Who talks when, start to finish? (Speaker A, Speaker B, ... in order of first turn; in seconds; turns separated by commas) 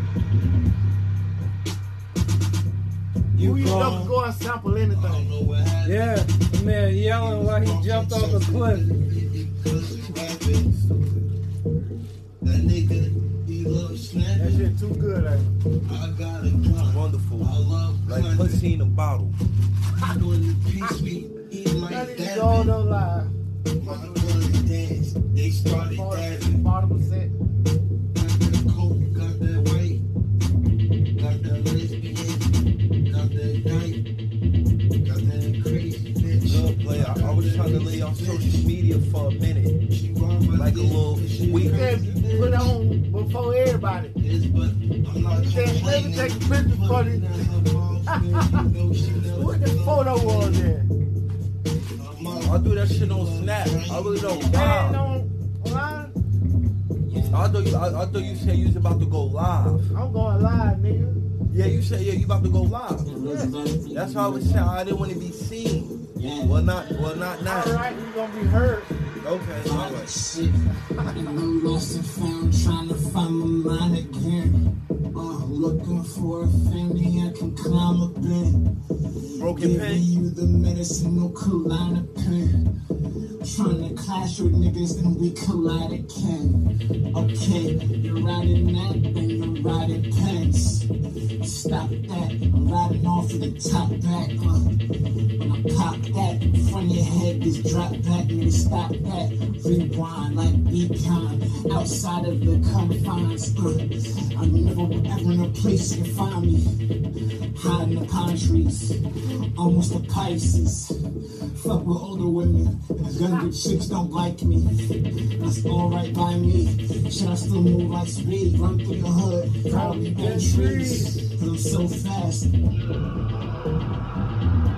Speaker A: 3.3-4.1, Speaker B: 3.4-5.3, Speaker A: 4.9-6.3, Speaker C: 5.8-9.1, Speaker A: 7.1-11.2, Speaker A: 12.4-14.7, Speaker B: 14.3-15.6, Speaker A: 15.8-18.6, Speaker D: 16.8-17.5, Speaker D: 18.1-19.4, Speaker A: 20.0-22.8, Speaker B: 21.9-24.6, Speaker A: 23.7-26.6, Speaker B: 25.6-27.3, Speaker A: 28.1-30.0, Speaker A: 31.1-34.0, Speaker A: 35.0-38.7, Speaker D: 36.4-39.8, Speaker A: 39.9-42.8, Speaker D: 40.5-42.0, Speaker B: 41.5-44.1, Speaker A: 44.2-50.7, Speaker B: 45.3-48.7, Speaker D: 49.0-49.3, Speaker B: 49.3-50.9, Speaker A: 51.9-54.8, Speaker D: 52.3-55.0, Speaker B: 54.5-56.1, Speaker E: 57.1-58.5, Speaker D: 57.3-59.9, Speaker B: 59.9-61.2, Speaker D: 61.5-63.1, Speaker E: 63.0-64.7, Speaker B: 63.1-63.5, Speaker D: 63.9-67.8, Speaker E: 66.1-67.2, Speaker B: 67.4-68.9, Speaker D: 69.2-70.1, Speaker E: 69.6-82.7, Speaker D: 79.4-80.1, Speaker E: 83.4-90.9, Speaker E: 91.4-94.7, Speaker E: 95.4-106.7, Speaker E: 107.5-109.0, Speaker E: 109.5-110.9, Speaker E: 111.5-114.7, Speaker E: 115.4-122.5, Speaker C: 119.7-121.3